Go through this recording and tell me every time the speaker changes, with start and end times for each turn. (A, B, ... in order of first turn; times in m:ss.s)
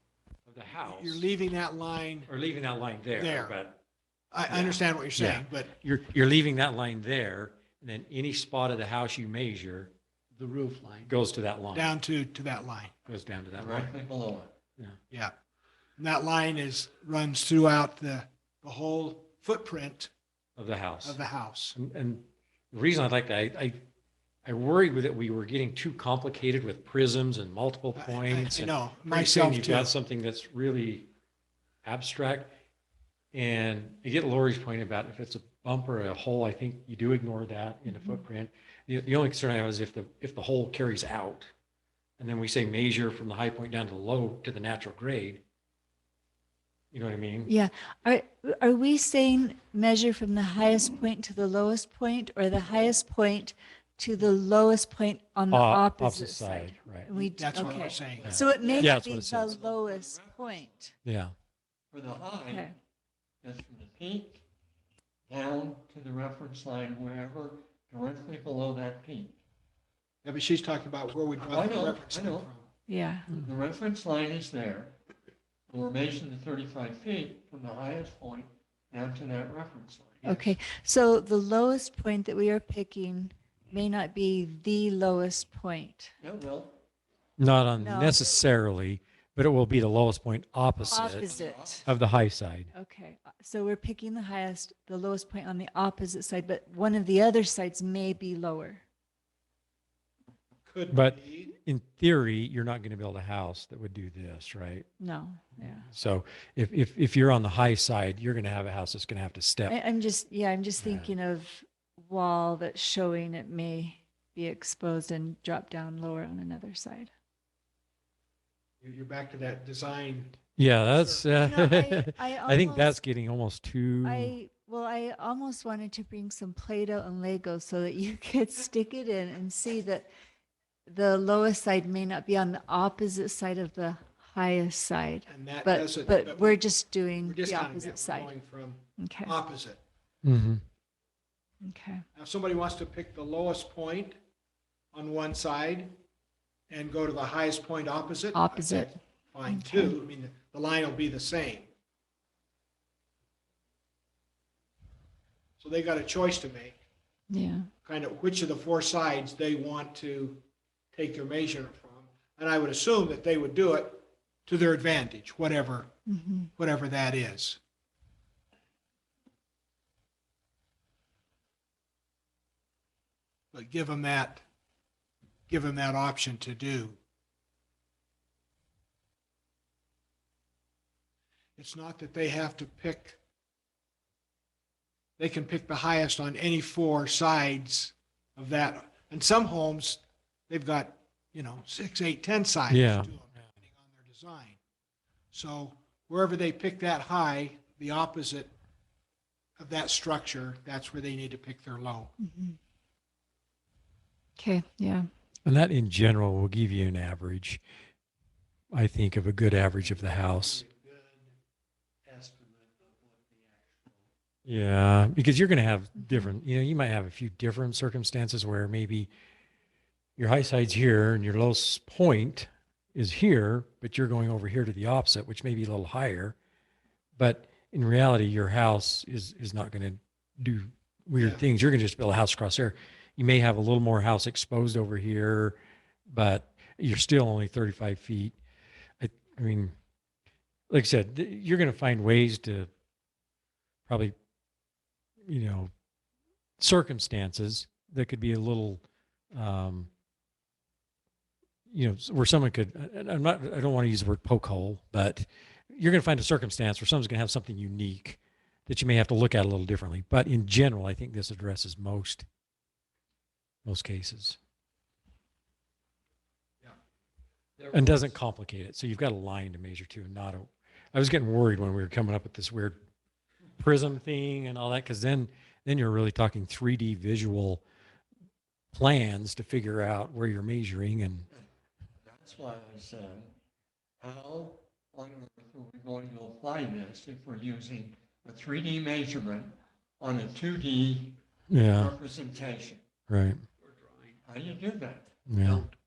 0:00.5-0:01.2 A
0:00.8-0:02.3 B
0:02.3-0:03.8 A
0:03.2-0:03.6 B
0:04.3-0:05.7 B
0:04.5-0:09.9 A
0:10.4-0:11.1 B
0:11.0-0:11.9 A
0:11.7-0:12.9 B
0:13.1-0:13.9 A
0:13.6-0:14.6 C
0:16.0-0:20.1 B
0:20.6-0:21.2 A
0:21.0-0:21.8 B
0:21.8-0:23.8 A
0:24.4-0:31.1 A
0:28.0-0:30.0 B
0:31.8-0:32.5 A
0:33.3-0:41.5 A
0:42.2-0:45.4 A
0:46.9-0:47.5 A
0:47.5-1:00.9 D
0:55.5-0:57.1 A
0:57.1-0:58.4 B
0:57.6-1:00.9 C
0:58.2-0:59.6 A
1:01.0-1:01.3 A
1:01.9-1:02.7 C
1:02.5-1:02.7 D
1:03.4-1:04.4 C
1:05.3-1:09.4 C
1:10.2-1:12.7 B
1:11.4-1:12.5 C
1:12.9-1:13.3 D
1:13.3-1:15.0 C
1:15.7-1:20.5 C
1:20.2-1:26.1 D
1:26.2-1:26.8 C
1:27.4-1:31.3 A
1:27.8-1:28.2 D
1:30.9-1:31.9 C
1:30.9-1:31.9 D
1:31.8-1:32.7 A
1:32.7-1:38.8 D
1:40.7-1:41.6 B
1:40.9-1:44.9 A
1:45.0-1:45.9 D
1:45.6-1:49.8 A
1:49.7-1:57.1 D
1:50.8-1:51.1 A
1:58.8-2:01.3 B
2:00.6-2:04.4 A
2:01.4-2:03.0 D
2:04.0-2:10.1 D
2:10.9-2:18.3 D
2:15.3-2:19.8 B
2:19.0-2:19.3 D
2:20.2-2:20.6 A
2:21.6-2:22.0 D
2:22.2-2:24.2 B
2:24.9-2:26.0 B
2:26.7-2:31.7 B
2:28.3-2:29.9 D
2:35.6-2:36.8 B
2:37.3-2:37.7 D
2:37.8-2:45.9 B
2:46.1-2:46.5 D
2:46.6-2:47.6 B
2:53.5-2:54.4 B
2:55.5-2:57.0 B
3:01.6-3:03.2 B
3:05.2-3:14.6 B
3:12.7-3:13.1 A
3:15.3-3:18.5 B
3:19.6-3:22.1 B
3:22.2-3:22.6 D
3:24.4-3:25.1 D
3:25.5-3:27.6 A
3:28.7-3:30.6 A
3:30.0-3:31.3 B
3:32.1-3:34.0 B
3:34.5-3:39.1 A
3:40.2-3:46.4 A
3:47.2-3:58.4 A
3:51.2-3:51.4 B
3:59.0-3:59.8 A
4:00.7-4:02.7 A
4:03.9-4:04.2 A
4:05.3-4:05.7 A
4:06.6-4:09.9 A
4:11.7-4:22.3 A
4:23.6-4:24.4 A
4:27.7-4:32.8 A
4:33.6-4:37.6 A
4:38.7-4:41.3 A
4:42.0-4:43.4 C
4:44.0-4:51.2 C
4:51.5-4:51.9 A
4:51.7-4:52.8 C
4:53.1-4:53.4 A
4:54.2-4:55.1 C
4:55.3-4:55.7 A
4:55.4-4:55.7 B